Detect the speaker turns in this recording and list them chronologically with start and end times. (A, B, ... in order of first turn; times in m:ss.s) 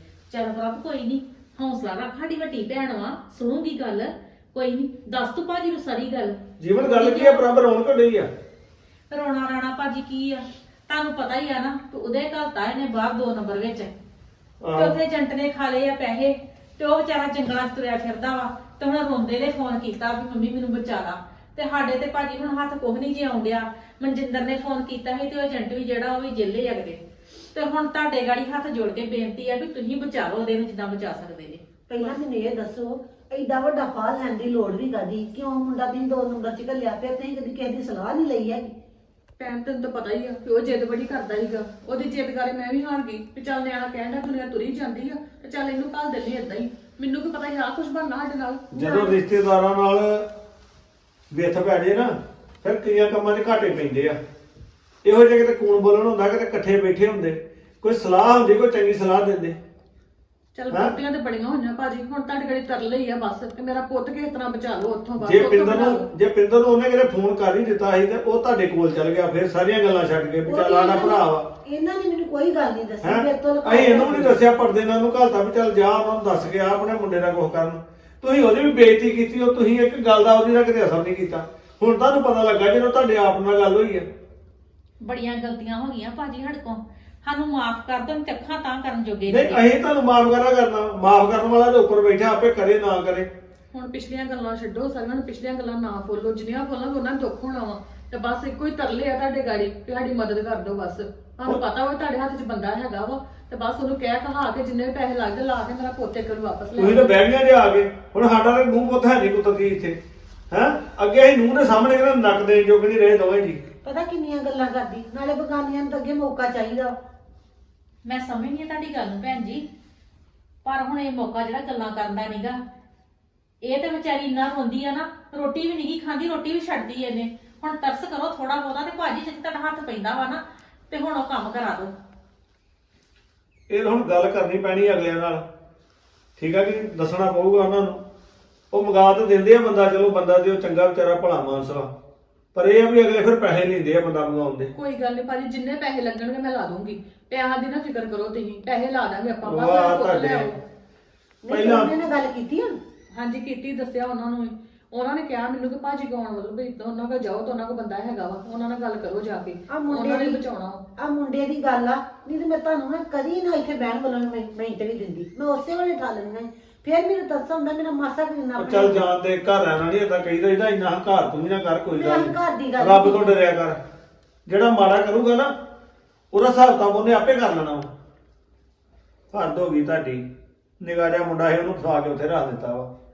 0:00.3-0:07.4 A
0:06.6-0:08.3 B
0:09.1-0:14.0 A
0:14.6-0:15.0 B
0:14.8-0:31.6 A
0:31.9-0:38.7 C
0:39.4-0:49.2 D
0:48.7-0:50.3 B
0:51.3-0:52.1 B
0:52.6-0:54.2 B
0:55.0-0:59.6 B
1:00.6-1:06.1 D
1:05.2-1:11.5 B
1:10.4-1:14.4 C
1:13.0-1:24.1 B
1:25.0-1:29.7 A
1:29.3-1:33.3 B
1:33.7-1:47.3 D
1:46.8-1:50.0 B
1:50.5-1:53.6 B
1:53.8-1:56.9 C
1:58.0-1:59.6 A
2:00.6-2:02.6 A
2:03.6-2:12.0 A
2:13.7-2:15.4 B
2:16.4-2:18.0 B
2:18.7-2:21.9 B
2:22.5-2:24.7 B
2:24.7-2:30.6 D
2:29.4-2:30.5 B
2:31.4-2:32.8 C
2:31.5-2:31.9 B
2:33.1-2:40.9 D
2:39.7-2:40.4 C
2:41.0-2:49.1 C
2:48.6-2:53.8 B
2:51.9-2:53.3 C
2:54.5-2:55.5 B
2:56.3-2:57.9 B
2:59.3-3:02.9 B